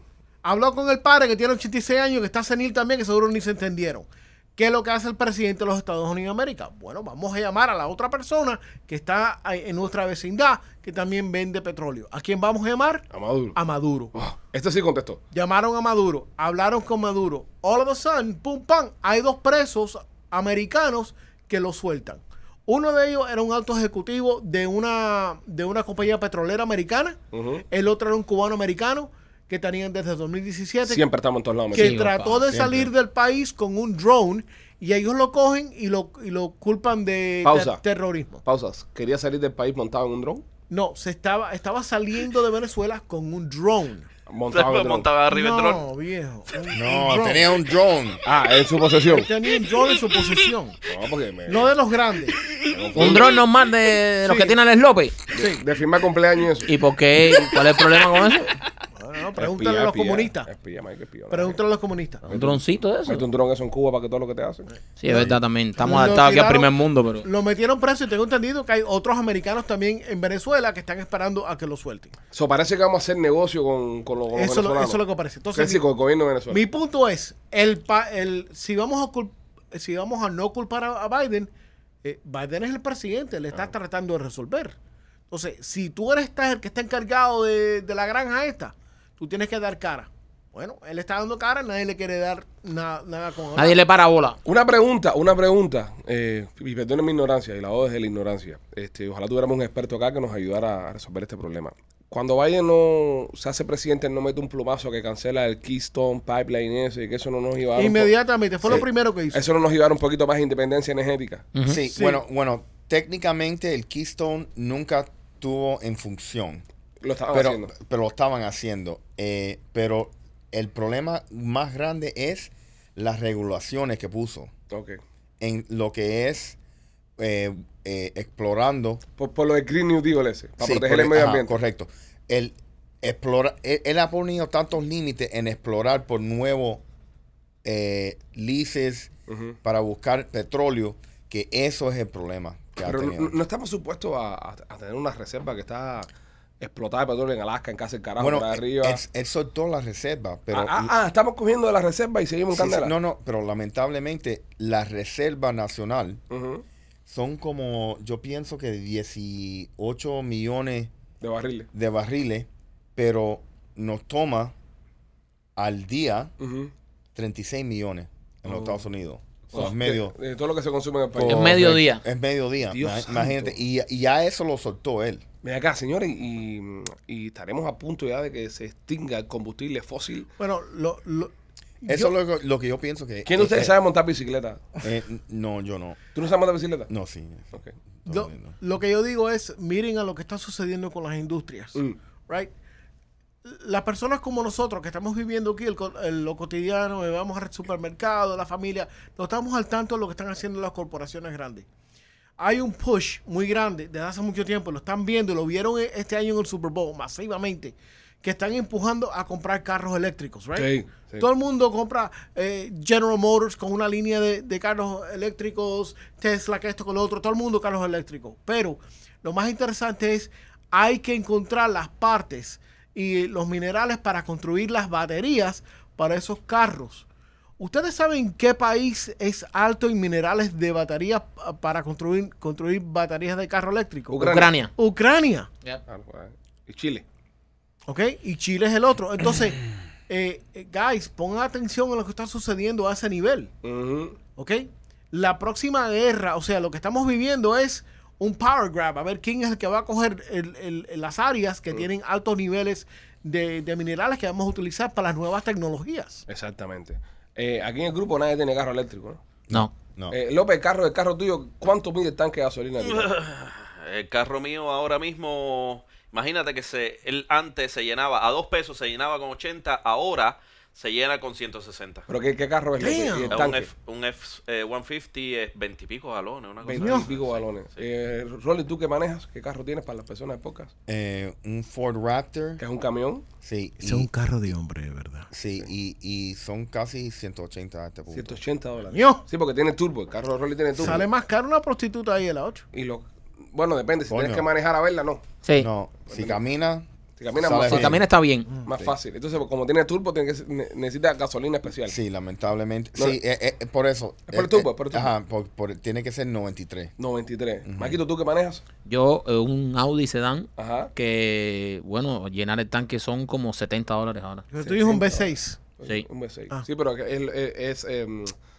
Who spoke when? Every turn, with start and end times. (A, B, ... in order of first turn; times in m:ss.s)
0:00.4-0:14.1 A
0:13.1-0:13.6 B
0:14.1-0:15.2 B
0:15.3-0:31.0 A
0:27.3-0:27.6 B
0:30.8-0:32.9 B
0:31.7-0:38.4 A
0:31.7-0:32.4 C
0:37.4-0:37.8 B
0:38.4-0:40.4 B
0:40.7-0:44.1 A
0:44.3-0:45.1 B
0:44.5-0:45.8 D
0:45.3-0:47.5 A
0:46.7-0:48.2 E
0:48.2-0:49.3 B
0:49.1-0:50.8 A
0:50.8-0:51.7 B
0:51.5-0:52.4 A
0:52.5-0:53.4 B
0:52.9-0:55.1 C
0:54.2-0:54.6 A
0:55.3-0:55.6 A
0:55.3-0:56.7 B
0:56.7-0:58.6 C
0:59.0-1:00.5 A
0:59.4-1:01.6 B
1:01.3-1:02.2 A
1:02.2-1:04.7 B
1:02.3-1:03.2 C
1:05.0-1:07.2 C
1:05.0-1:12.2 A
1:12.3-1:15.0 B
1:14.3-1:15.8 A
1:15.5-1:16.6 B
1:16.5-1:21.5 A
1:22.0-1:24.7 A
1:25.3-1:33.8 A
1:33.6-1:34.4 C
1:34.4-1:51.5 B
1:47.8-1:49.4 A
1:51.5-1:51.8 C
1:51.6-1:56.6 E
1:51.9-1:52.2 A
1:57.0-1:57.7 B
1:57.3-2:04.5 E
2:04.7-2:05.0 B
2:05.4-2:06.6 E
2:07.2-2:09.0 E
2:09.2-2:11.6 B
2:10.6-2:16.8 E
2:17.6-2:19.1 E
2:19.3-2:19.6 B
2:19.6-2:23.4 E
2:22.8-2:26.1 B
2:26.6-2:29.0 B
2:28.2-2:30.9 E
2:30.5-2:32.9 B
2:32.5-2:36.2 E
2:36.3-2:36.6 B
2:37.0-2:40.9 E
2:41.2-2:41.7 B
2:41.7-2:44.5 E
2:45.6-2:46.3 E
2:46.4-2:46.7 B
2:47.1-2:50.1 E
2:48.4-2:48.8 B
2:49.5-2:51.6 B
2:51.1-2:55.2 E
2:51.3-2:52.0 C
2:52.7-2:53.6 B
2:55.4-3:00.3 B
3:00.4-3:02.1 A
3:01.9-3:03.7 E
3:03.2-3:04.8 B
3:04.8-3:06.0 E
3:06.1-3:06.9 B
3:06.9-3:08.6 E
3:08.1-3:12.5 A
3:13.4-3:21.6 A
3:22.4-3:47.0 A
3:30.5-3:31.3 B
3:47.6-3:55.5 A
3:54.1-3:54.5 B
3:54.2-3:54.7 C
3:55.9-3:57.0 B
3:57.9-4:03.5 A
4:03.6-4:04.2 B
4:04.4-4:16.2 A
4:16.3-4:19.2 B
4:19.5-4:20.2 E
4:20.1-4:23.1 B
4:22.8-4:32.0 D
4:32.1-4:33.7 B
4:32.8-4:33.5 A
4:33.3-4:37.4 D
4:36.6-4:40.7 B
4:36.8-4:37.1 A
4:40.9-4:42.6 E
4:42.6-4:43.2 B
4:43.4-4:44.1 E
4:43.8-4:45.3 A
4:45.3-4:48.4 E
4:48.1-4:51.1 B
4:48.9-4:49.2 A
4:50.8-4:52.6 A
4:50.8-4:51.0 E
4:52.7-4:55.2 B
4:54.1-4:54.5 E
4:55.6-4:58.0 E
4:56.1-4:56.4 B
4:57.2-4:58.0 B
4:57.6-4:58.5 C
4:58.6-5:02.0 B
5:01.9-5:06.9 E
5:04.3-5:05.1 B
5:07.0-5:08.6 B
5:07.6-5:08.0 E
5:08.8-5:14.4 C
5:10.6-5:10.9 B
5:14.5-5:15.6 A
5:14.6-5:18.3 B